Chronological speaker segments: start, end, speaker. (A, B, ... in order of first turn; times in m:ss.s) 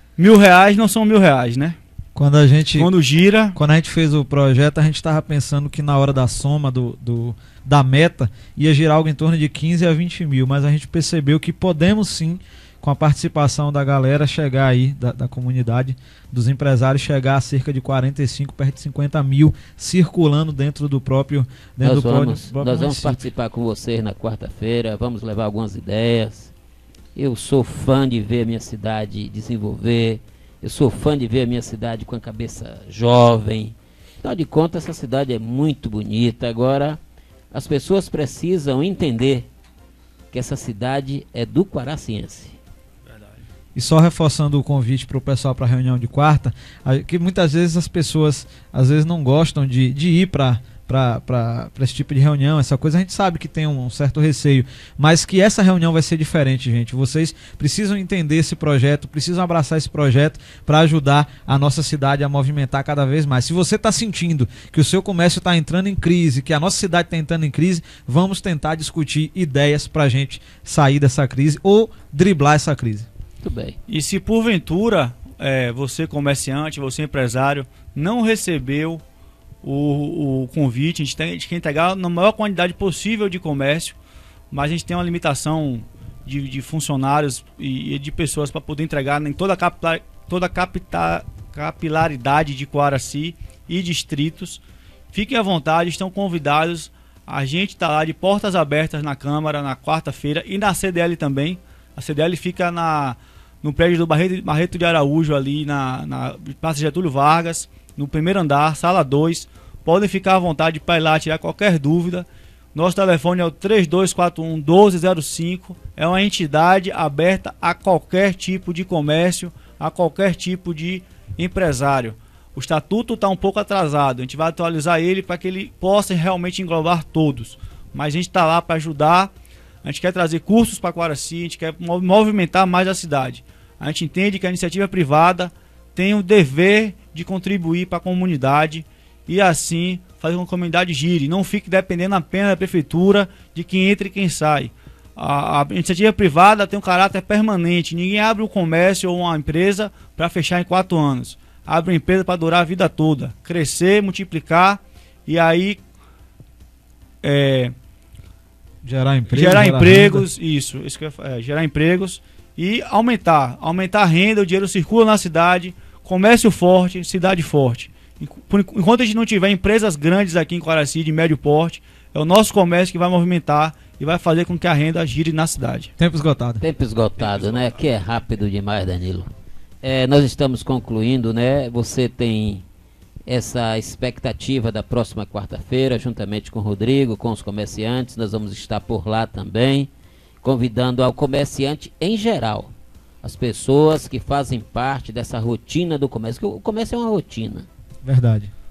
0:00.2-0:01.8 A
0:02.2-0:02.9 B
0:02.8-0:03.6 A
0:03.5-0:23.2 B
0:21.8-0:26.5 C
0:27.2-0:37.0 C
0:37.5-0:39.5 C
0:40.3-0:42.6 C
0:43.1-0:43.4 A
0:43.8-1:13.1 B
1:13.4-1:13.8 C
1:13.9-1:19.0 A
1:19.6-1:24.0 A
1:24.5-2:09.3 A
2:09.8-2:35.8 A
2:37.2-2:37.7 A
2:38.8-2:40.3 B
2:39.3-2:55.9 A
2:56.0-2:56.6 B
2:56.6-2:59.3 C
2:57.3-2:57.7 A
2:59.8-3:02.6 C
3:03.3-3:09.9 C
3:10.4-3:17.7 C
3:18.0-3:18.5 B